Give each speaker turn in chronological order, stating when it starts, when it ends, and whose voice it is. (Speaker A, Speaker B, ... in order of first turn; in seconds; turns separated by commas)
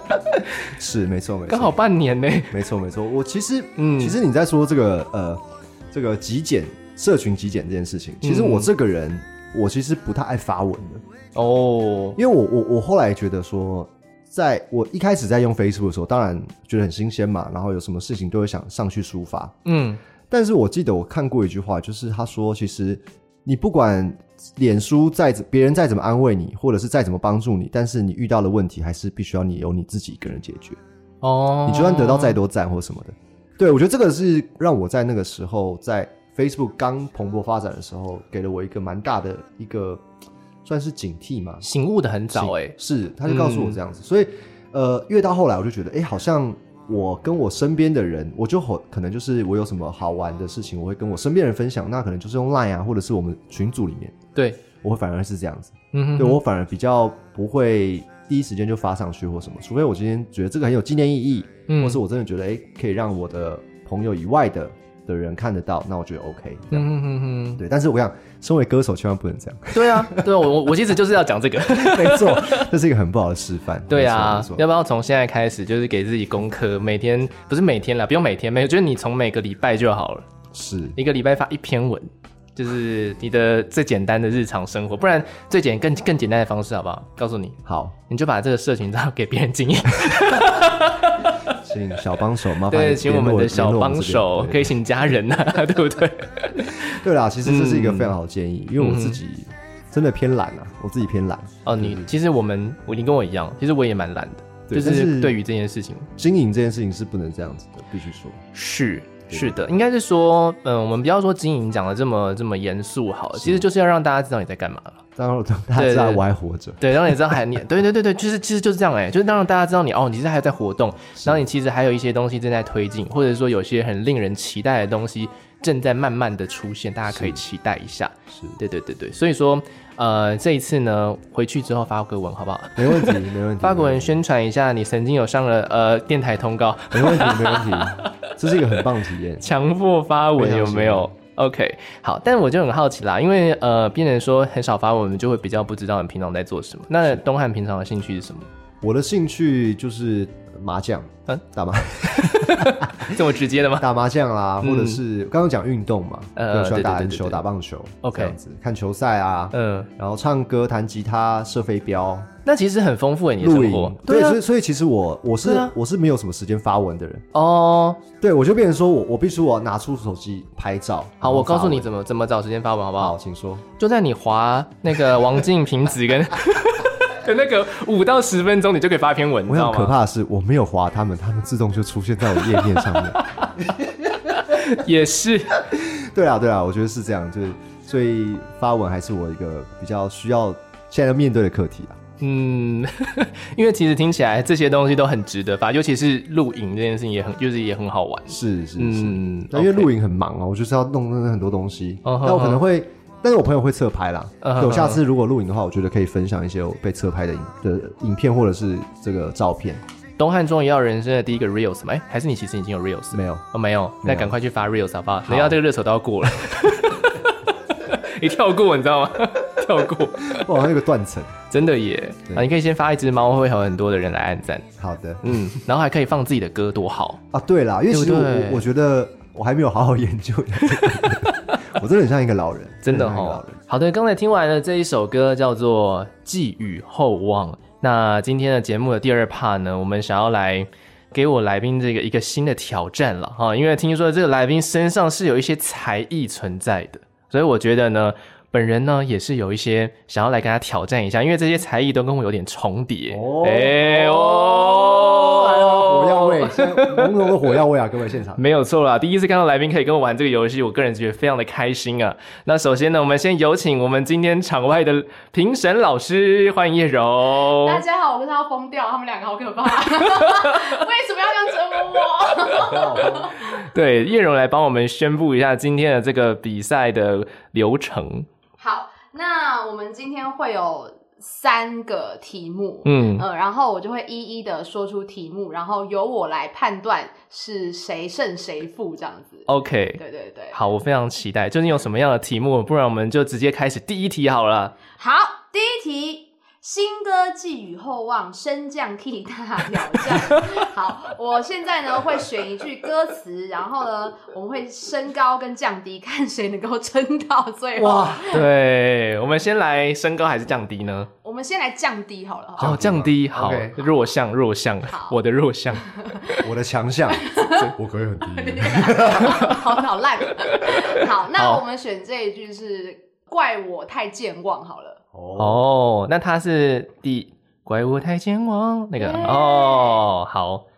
Speaker A: 0.6-1.8, Speaker B: 1.5-2.6, Speaker A: 2.5-11.0, Speaker B: 3.8-4.2, Speaker B: 8.2-8.7, Speaker B: 11.3-12.2, Speaker A: 12.2-19.6, Speaker B: 19.6-20.0, Speaker A: 20.3-30.8, Speaker B: 31.2-32.4, Speaker A: 31.6-40.0, Speaker A: 40.6-41.6, Speaker B: 41.6-43.8, Speaker A: 42.3-54.2, Speaker A: 54.8-66.9, Speaker B: 55.9-56.4, Speaker B: 61.7-62.0, Speaker B: 66.7-67.6, Speaker A: 67.6-70.4, Speaker B: 69.7-72.7, Speaker A: 71.7-74.6, Speaker B: 73.9-80.3, Speaker A: 80.5-81.0, Speaker B: 81.0-91.6, Speaker A: 87.7-88.0, Speaker A: 91.5-94.8, Speaker B: 92.7-98.1, Speaker A: 96.5-102.1, Speaker B: 98.8-99.2, Speaker B: 101.7-106.1, Speaker A: 104.7-105.4, Speaker A: 106.2-108.4, Speaker B: 108.5-115.0, Speaker A: 109.3-109.8, Speaker A: 113.3-113.7, Speaker A: 115.2-117.4, Speaker B: 115.8-116.2, Speaker B: 116.8-138.1, Speaker A: 121.2-121.4, Speaker A: 127.1-127.4, Speaker A: 128.3-128.6, Speaker A: 132.8-134.2, Speaker A: 136.9-139.5, Speaker B: 139.4-148.5, Speaker A: 140.4-141.1, Speaker A: 148.8-153.2, Speaker B: 152.0-153.9, Speaker A: 153.8-162.3, Speaker B: 154.6-155.0, Speaker B: 156.4-157.4, Speaker B: 158.0-158.4, Speaker B: 159.5-159.9, Speaker B: 162.4-164.4, Speaker A: 163.4-167.3, Speaker B: 165.4-165.7, Speaker B: 167.3-168.0, Speaker A: 168.2-171.9, Speaker B: 171.2-173.2, Speaker A: 173.0-173.7, Speaker B: 173.8-179.9, Speaker A: 179.5-184.6, Speaker B: 182.6-183.5, Speaker B: 184.3-185.6, Speaker A: 185.6-192.0, Speaker B: 192.2-199.9, Speaker A: 198.3-209.8, Speaker B: 202.1-202.6, Speaker B: 204.4-205.0, Speaker B: 210.2-220.5, Speaker A: 213.1-213.4, Speaker A: 214.0-214.3, Speaker A: 215.3-215.6, Speaker A: 220.2-221.3, Speaker B: 221.5-224.7, Speaker A: 224.8-225.2, Speaker B: 225.2-227.2, Speaker A: 227.3-233.6, Speaker B: 227.9-228.7, Speaker B: 231.3-231.5, Speaker B: 232.8-257.4, Speaker A: 253.1-258.4, Speaker B: 258.4-267.8, Speaker C: 267.6-273.6, Speaker B: 270.2-270.8, Speaker A: 272.5-273.4, Speaker B: 273.4-278.3, Speaker C: 278.6-290.6, Speaker B: 282.9-283.2, Speaker B: 289.5-290.0, Speaker B: 290.5-294.7, Speaker C: 295.0-308.5, Speaker B: 300.0-300.7, Speaker A: 307.8-308.4, Speaker B: 308.3-311.1, Speaker C: 311.2-312.8, Speaker A: 312.6-313.8, Speaker B: 312.6-315.8, Speaker C: 314.9-315.2, Speaker C: 315.8-316.4, Speaker A: 316.4-319.6, Speaker C: 317.2-317.7, Speaker C: 318.2-325.0, Speaker B: 319.2-319.6, Speaker B: 320.4-321.6, Speaker A: 325.1-325.6, Speaker B: 325.4-330.6, Speaker C: 329.0-330.1